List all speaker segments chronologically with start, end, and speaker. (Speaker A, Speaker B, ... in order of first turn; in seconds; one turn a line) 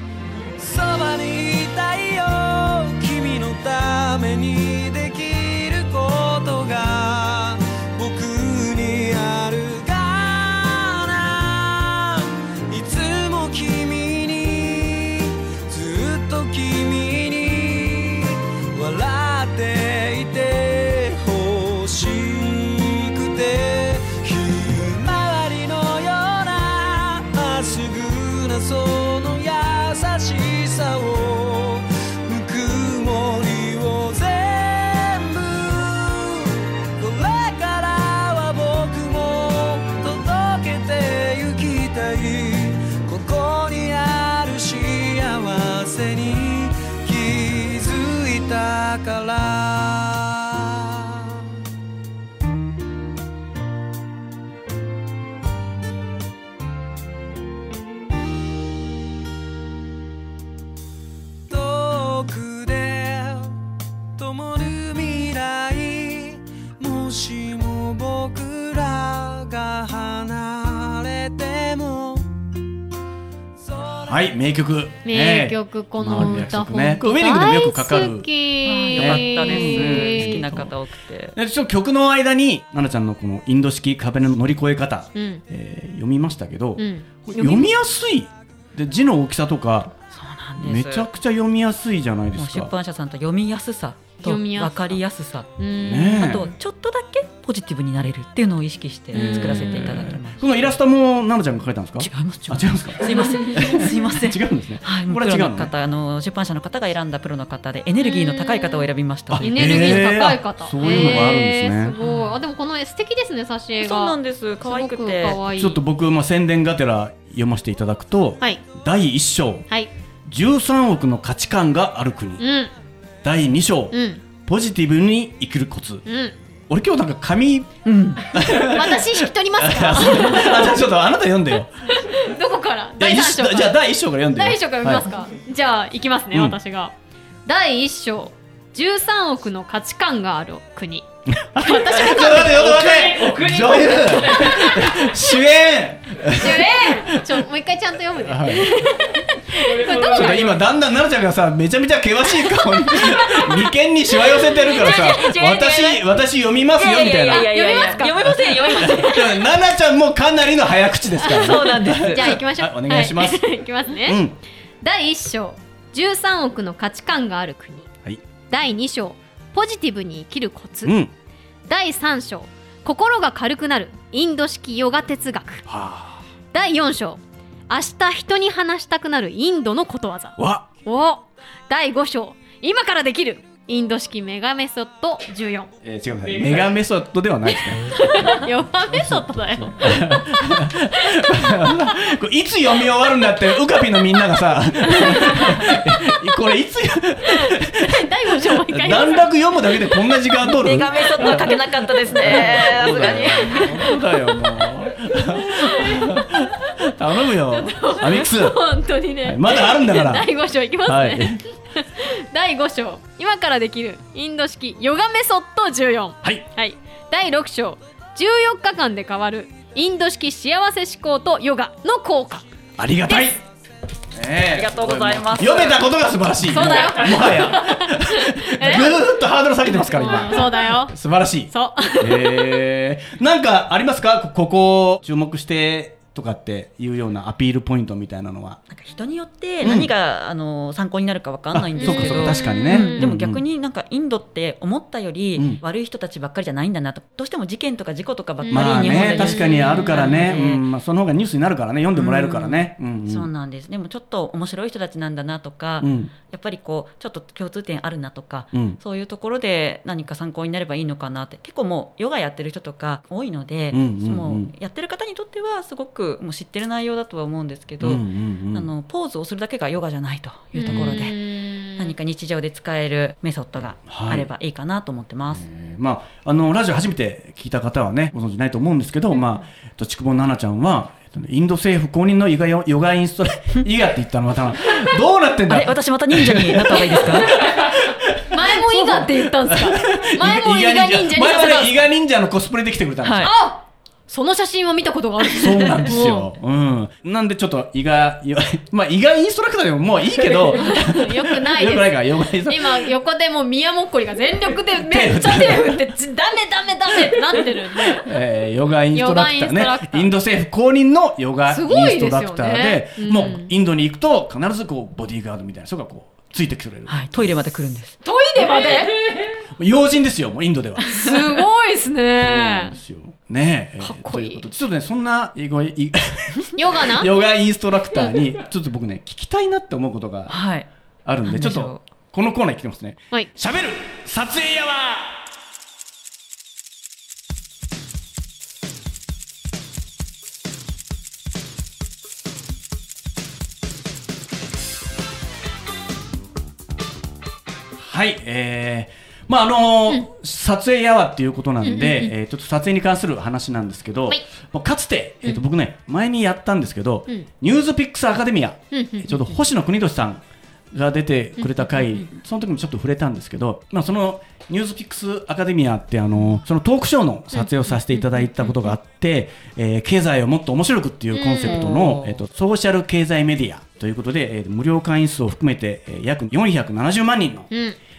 Speaker A: 0.6-51.5
Speaker A: 61.5-63.6
Speaker A: 64.2-72.3
Speaker A: 73.6-74.3
Speaker B: 74.0-78.3
Speaker C: 75.0-80.5
Speaker D: 78.7-81.4
Speaker B: 79.0-80.7
Speaker B: 81.4-90.0
Speaker C: 85.2-85.4
Speaker C: 86.8-87.7
Speaker D: 90.1-91.1
Speaker B: 90.6-92.7
Speaker D: 92.4-95.5
Speaker C: 94.2-95.0
Speaker C: 95.6-96.4
Speaker B: 95.8-96.5
Speaker D: 96.2-100.4
Speaker C: 99.1-99.9
Speaker B: 99.1-105.7
Speaker D: 102.0-110.1
Speaker C: 103.2-103.6
Speaker C: 108.0-108.8
Speaker B: 109.3-112.0
Speaker C: 109.4-115.8
Speaker D: 112.0-112.4
Speaker D: 113.8-115.4
Speaker B: 115.5-119.7
Speaker B: 120.3-122.4
Speaker C: 122.4-122.7
Speaker B: 123.2-126.0
Speaker C: 123.9-124.2
Speaker C: 126.1-126.3
Speaker B: 126.7-131.7
Speaker D: 127.8-128.2
Speaker C: 128.6-130.8
Speaker C: 131.9-133.8
Speaker B: 133.0-135.1
Speaker C: 134.3-136.9
Speaker B: 136.3-136.6
Speaker C: 137.5-143.4
Speaker B: 141.3-147.4
Speaker C: 144.1-145.3
Speaker C: 146.3-150.6
Speaker B: 148.2-148.9
Speaker B: 149.7-157.6
Speaker C: 152.3-155.4
Speaker D: 154.8-156.0
Speaker D: 156.8-159.4
Speaker C: 157.3-159.1
Speaker B: 158.2-163.4
Speaker C: 161.2-164.2
Speaker D: 161.3-162.3
Speaker B: 164.0-164.4
Speaker C: 164.8-167.9
Speaker C: 168.5-170.9
Speaker B: 170.8-171.1
Speaker C: 171.7-175.6
Speaker B: 175.7-176.2
Speaker C: 176.5-185.7
Speaker B: 180.4-180.7
Speaker B: 185.8-208.6
Speaker C: 187.9-191.9
Speaker C: 194.9-195.7
Speaker C: 197.3-199.3
Speaker D: 200.4-203.7
Speaker C: 201.2-201.5
Speaker C: 202.1-204.7
Speaker C: 205.4-206.5
Speaker C: 207.5-222.4
Speaker B: 209.2-210.3
Speaker B: 210.8-211.4
Speaker B: 222.8-223.4
Speaker C: 223.1-223.3
Speaker B: 224.1-238.6
Speaker D: 224.5-225.8
Speaker C: 226.4-229.0
Speaker C: 229.8-231.0
Speaker C: 231.5-232.6
Speaker D: 238.7-250.6
Speaker B: 239.6-239.9
Speaker B: 241.5-243.4
Speaker C: 241.8-243.1
Speaker C: 248.4-250.1
Speaker B: 248.5-253.3
Speaker D: 252.0-275.4
Speaker B: 255.8-256.1
Speaker B: 258.5-258.8
Speaker B: 263.7-264.5
Speaker B: 267.8-268.7
Speaker C: 270.5-271.9
Speaker B: 270.7-271.0
Speaker B: 273.9-274.3
Speaker B: 275.3-293.3
Speaker D: 285.5-287.3
Speaker C: 287.3-287.7
Speaker C: 288.3-291.9
Speaker D: 293.0-293.3
Speaker C: 293.2-296.3
Speaker B: 295.3-302.9
Speaker C: 300.5-308.1
Speaker B: 304.8-305.9
Speaker B: 308.0-317.4
Speaker C: 308.9-310.1
Speaker C: 311.5-313.5
Speaker D: 316.9-318.0
Speaker C: 318.0-319.0
Speaker B: 319.6-321.1
Speaker C: 320.9-322.8
Speaker B: 322.2-330.4
Speaker C: 323.8-324.4
Speaker C: 326.6-327.1
Speaker D: 330.3-330.7
Speaker B: 331.1-335.2
Speaker D: 331.2-331.8
Speaker B: 347.8-377.5
Speaker C: 351.6-352.1
Speaker C: 358.7-359.2
Speaker C: 361.4-362.1
Speaker C: 371.1-371.7
Speaker D: 371.4-372.2